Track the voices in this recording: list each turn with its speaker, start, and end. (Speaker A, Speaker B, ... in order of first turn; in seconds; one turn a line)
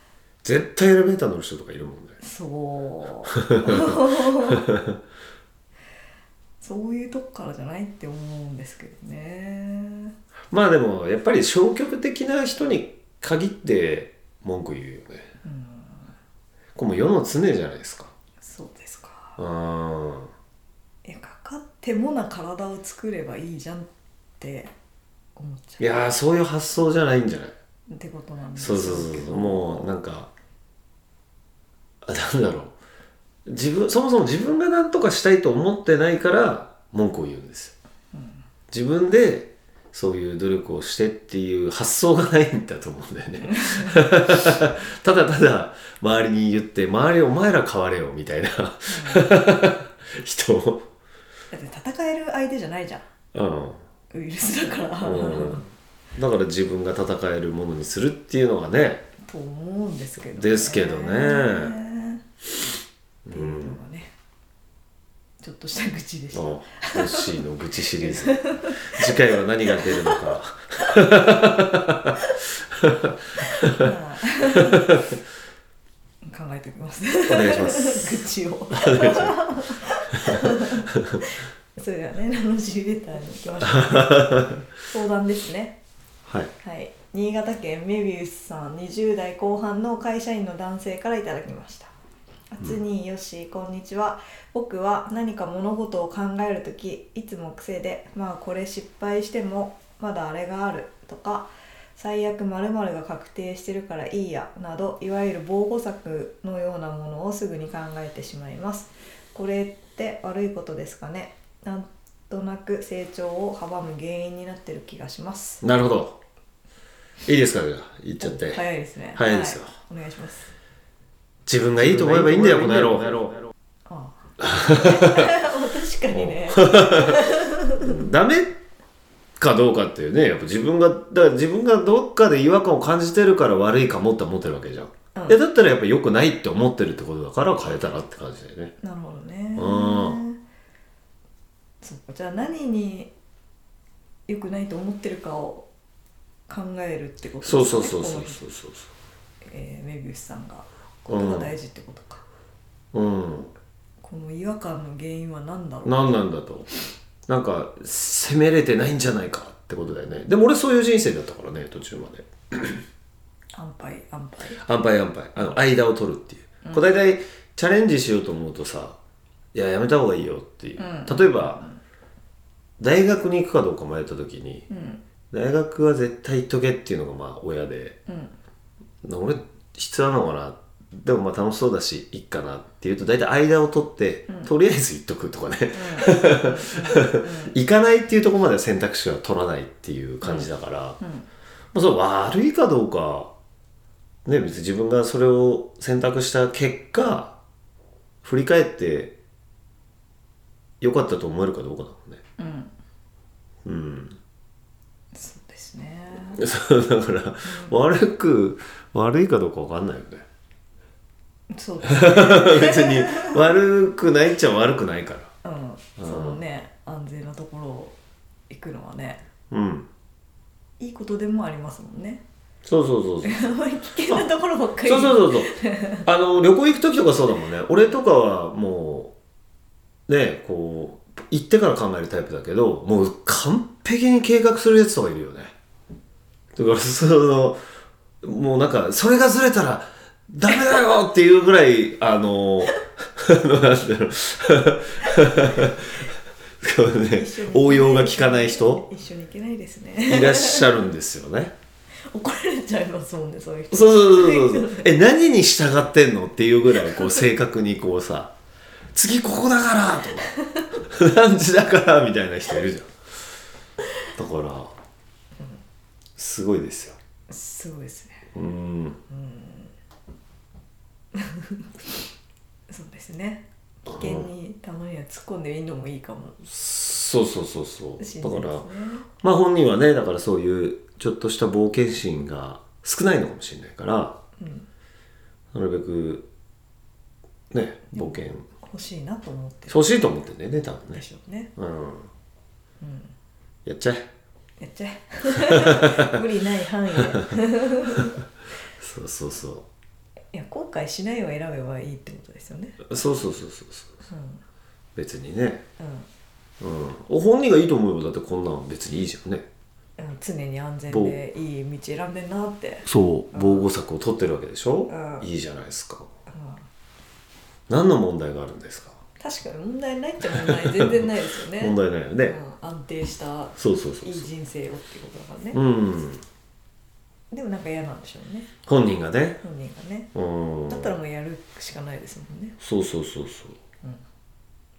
Speaker A: 0.4-2.2
Speaker B: 2.2-4.6
Speaker A: 3.5-3.9
Speaker A: 4.5-4.9
Speaker B: 6.6-10.1
Speaker A: 10.5-15.3
Speaker B: 15.4-16.1
Speaker A: 16.8-18.1
Speaker B: 18.4-19.4
Speaker A: 19.4-20.3
Speaker B: 21.0-23.9
Speaker B: 24.4-24.7
Speaker B: 25.4-26.0
Speaker A: 25.8-27.5
Speaker B: 27.9-29.9
Speaker A: 28.6-30.3
Speaker A: 32.0-32.8
Speaker A: 33.5-37.7
Speaker A: 38.7-50.8
Speaker B: 43.5-44.0
Speaker B: 48.9-49.2
Speaker B: 51.5-53.0
Speaker A: 53.3-53.8
Speaker B: 54.1-55.6
Speaker A: 55.0-59.0
Speaker B: 59.2-62.2
Speaker A: 60.3-61.8
Speaker A: 63.2-63.8
Speaker B: 63.3-64.1
Speaker B: 65.4-67.4
Speaker A: 66.3-72.2
Speaker B: 68.0-70.3
Speaker A: 72.7-73.9
Speaker B: 73.4-74.9
Speaker B: 76.2-85.8
Speaker A: 77.3-79.4
Speaker A: 80.2-81.1
Speaker A: 83.7-84.7
Speaker A: 86.2-86.5
Speaker B: 86.6-91.9
Speaker B: 92.5-115.6
Speaker A: 115.6-116.2
Speaker A: 117.2-118.6
Speaker B: 118.2-120.5
Speaker A: 119.1-119.7
Speaker A: 121.5-123.4
Speaker B: 123.9-128.1
Speaker A: 124.4-125.2
Speaker A: 126.1-127.2
Speaker A: 127.8-128.6
Speaker A: 129.4-138.7
Speaker B: 138.8-140.4
Speaker A: 139.6-140.2
Speaker B: 141.8-143.1
Speaker B: 144.3-145.7
Speaker B: 146.5-148.4
Speaker A: 147.4-148.9
Speaker B: 149.5-152.2
Speaker A: 151.1-151.5
Speaker A: 152.9-153.5
Speaker B: 154.0-156.2
Speaker A: 155.8-156.7
Speaker A: 157.3-162.8
Speaker B: 163.5-164.6
Speaker A: 164.6-169.0
Speaker B: 166.6-166.9
Speaker A: 169.5-171.6
Speaker B: 170.8-171.8
Speaker A: 172.8-174.7
Speaker B: 174.7-175.0
Speaker A: 175.3-178.0
Speaker B: 178.1-178.3
Speaker A: 179.0-191.0
Speaker B: 185.7-187.6
Speaker B: 190.2-190.5
Speaker B: 191.0-191.3
Speaker A: 191.7-193.3
Speaker A: 194.2-197.4
Speaker A: 198.2-199.1
Speaker A: 200.8-202.2
Speaker B: 202.4-202.7
Speaker A: 203.6-204.2
Speaker B: 205.1-206.4
Speaker A: 206.3-210.2
Speaker B: 207.4-207.8
Speaker B: 211.5-213.4
Speaker A: 211.8-215.3
Speaker B: 215.4-217.9
Speaker A: 216.0-216.4
Speaker B: 218.5-219.2
Speaker A: 219.5-219.9
Speaker B: 220.8-222.2
Speaker A: 222.6-223.6
Speaker B: 223.2-226.1
Speaker A: 224.8-225.5
Speaker A: 226.0-229.1
Speaker A: 230.1-235.5
Speaker A: 236.6-237.6
Speaker A: 238.2-246.1
Speaker A: 246.6-248.8
Speaker B: 247.1-250.7
Speaker A: 250.0-251.5
Speaker B: 252.1-254.9
Speaker A: 253.7-258.3
Speaker B: 256.9-257.1
Speaker A: 258.9-262.9
Speaker A: 264.1-264.7
Speaker A: 266.2-267.0
Speaker B: 267.3-268.2
Speaker A: 268.3-269.0
Speaker B: 269.1-269.7
Speaker B: 271.1-271.7
Speaker B: 272.7-276.4
Speaker A: 273.9-274.3
Speaker A: 276.4-284.2
Speaker B: 278.0-279.1
Speaker B: 284.4-284.7
Speaker A: 285.5-286.3
Speaker A: 287.5-288.5
Speaker B: 287.9-290.0
Speaker A: 289.7-291.0
Speaker B: 290.9-291.5
Speaker A: 291.6-292.1
Speaker B: 292.8-293.1
Speaker A: 293.6-294.0
Speaker B: 294.6-298.1
Speaker A: 295.4-295.9
Speaker A: 298.8-299.6
Speaker B: 300.3-302.8
Speaker A: 302.8-303.9
Speaker B: 304.1-304.4
Speaker A: 304.9-305.6
Speaker B: 305.8-306.1
Speaker A: 306.6-309.4
Speaker B: 310.0-313.7
Speaker A: 310.9-311.2
Speaker A: 312.9-316.1
Speaker B: 314.9-315.3
Speaker B: 316.3-316.6
Speaker A: 317.7-319.0
Speaker B: 319.2-325.6
Speaker A: 320.4-320.9
Speaker A: 321.6-322.4
Speaker A: 323.6-324.2
Speaker A: 325.5-326.2
Speaker B: 327.3-328.5
Speaker A: 328.6-329.4
Speaker B: 329.4-330.1
Speaker A: 330.1-330.9
Speaker B: 330.7-332.6
Speaker A: 332.6-333.6